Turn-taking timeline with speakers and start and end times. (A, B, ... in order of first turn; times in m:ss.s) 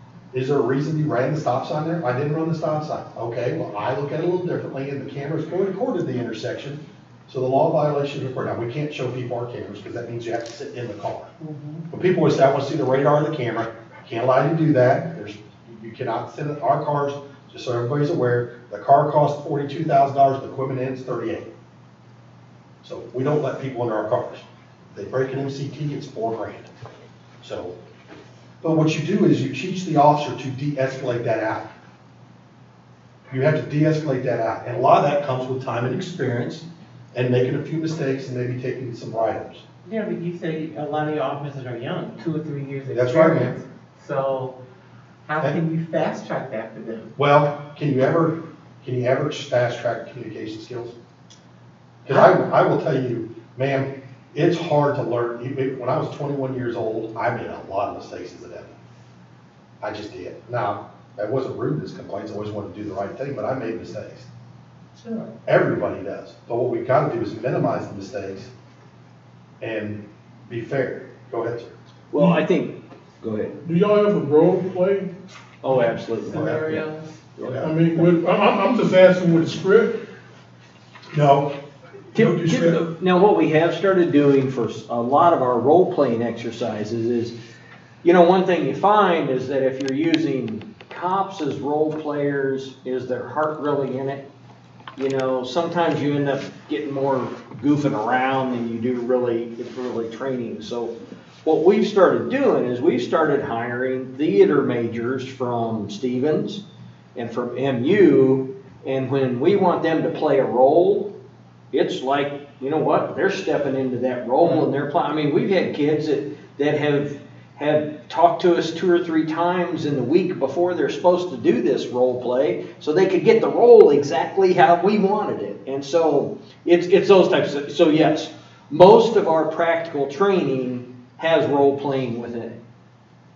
0:00.3-0:11.3 A
0:11.4-0:11.9 B
0:11.9-0:21.5 A
0:22.8-0:26.7 A
0:27.4-0:27.8 A
0:28.6-0:31.7 A
0:33.3-0:39.6 A
0:39.8-0:44.6 B
0:42.9-0:43.6 A
0:45.3-0:47.1 B
0:47.2-0:51.0 A
0:52.0-0:58.8 A
0:59.8-1:04.3 A
1:05.0-1:05.4 B
1:05.5-1:08.5 A
1:09.6-1:11.8 A
1:12.1-1:13.6 C
1:12.2-1:12.4 D
1:13.6-1:15.1 D
1:15.6-1:16.9 C
1:15.7-1:17.2 B
1:16.3-1:16.8 A
1:17.4-1:17.7 A
1:17.6-1:20.0 D
1:21.1-1:21.6 A
1:22.1-1:22.8 A
1:22.2-1:27.4 C
1:28.0-1:34.3 C
1:35.0-1:40.9 C
1:41.4-1:51.1 C
1:51.7-2:12.6 C